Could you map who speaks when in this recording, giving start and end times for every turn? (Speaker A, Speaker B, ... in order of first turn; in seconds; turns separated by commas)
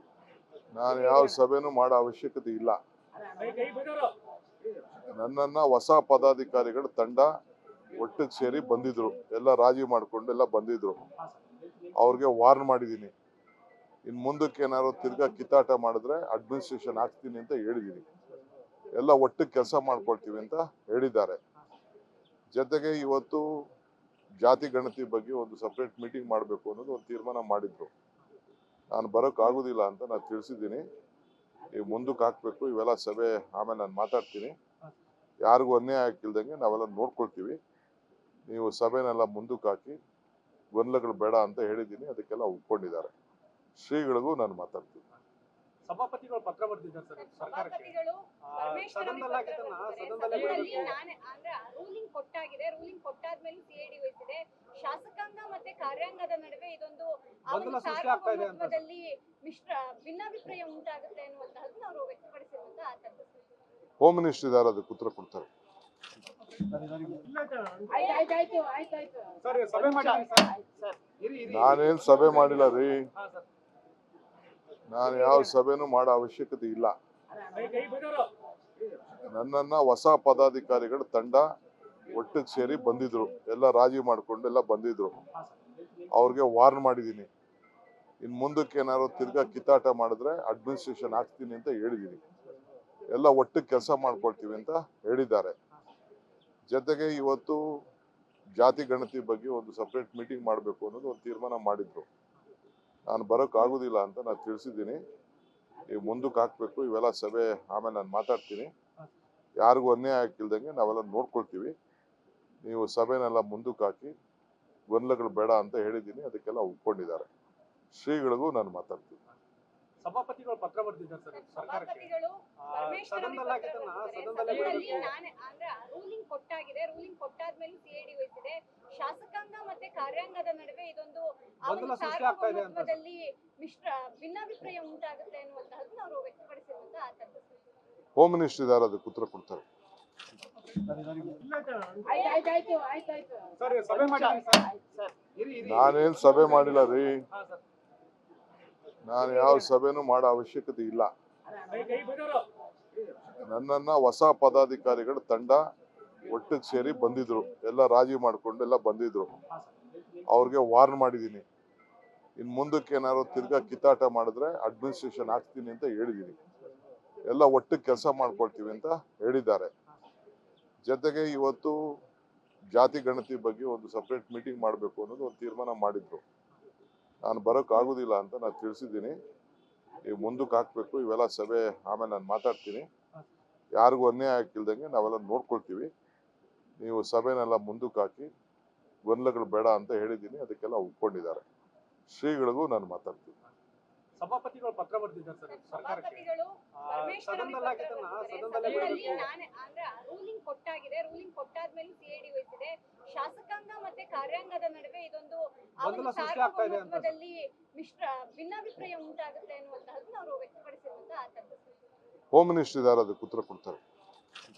Speaker A: 0.7-2.8, Speaker B: 3.4-4.1, Speaker A: 5.1-7.3, Speaker A: 7.9-11.0, Speaker A: 11.9-13.1, Speaker A: 14.1-18.1, Speaker A: 19.0-21.4, Speaker A: 22.5-23.4, Speaker A: 24.4-27.9, Speaker A: 28.9-30.8, Speaker A: 31.7-34.5, Speaker A: 35.4-37.6, Speaker A: 38.5-40.0, Speaker A: 40.7-43.1, Speaker A: 43.8-45.0, Speaker B: 45.9-47.9, Speaker C: 47.2-63.5, Speaker B: 48.5-50.9, Speaker B: 57.5-58.8, Speaker A: 64.0-65.5, Speaker B: 66.8-67.2, Speaker D: 67.6-70.5, Speaker B: 69.4-72.5, Speaker A: 71.5-73.0, Speaker B: 73.1-73.4, Speaker A: 74.9-76.9, Speaker B: 77.5-78.3, Speaker A: 79.3-81.4, Speaker A: 82.1-85.2, Speaker A: 86.1-87.3, Speaker A: 88.2-92.2, Speaker A: 93.1-95.5, Speaker A: 96.7-97.6, Speaker A: 98.6-102.1, Speaker A: 103.1-105.0, Speaker A: 105.9-108.7, Speaker A: 109.6-111.7, Speaker A: 112.6-114.1, Speaker A: 114.9-117.3, Speaker A: 117.9-119.2, Speaker B: 120.0-122.0, Speaker C: 121.3-137.6, Speaker B: 122.7-125.1, Speaker B: 131.7-132.9, Speaker A: 138.2-139.6, Speaker B: 140.8-141.4, Speaker D: 141.5-143.5, Speaker B: 143.6-146.8, Speaker A: 145.6-147.2, Speaker B: 147.3-147.6, Speaker A: 149.1-151.1, Speaker B: 151.7-152.4, Speaker D: 151.8-152.1, Speaker A: 153.4-155.6, Speaker A: 156.3-159.3, Speaker A: 160.3-161.4, Speaker A: 162.4-166.4, Speaker A: 167.3-169.7, Speaker A: 170.8-171.8, Speaker A: 172.7-176.2, Speaker A: 177.2-179.2, Speaker A: 180.0-182.9, Speaker A: 183.8-185.9, Speaker A: 186.8-188.3, Speaker A: 189.1-191.4, Speaker A: 192.1-193.3, Speaker B: 194.2-196.2, Speaker C: 195.5-211.7, Speaker B: 196.8-199.2, Speaker B: 205.8-207.1, Speaker A: 212.3-213.8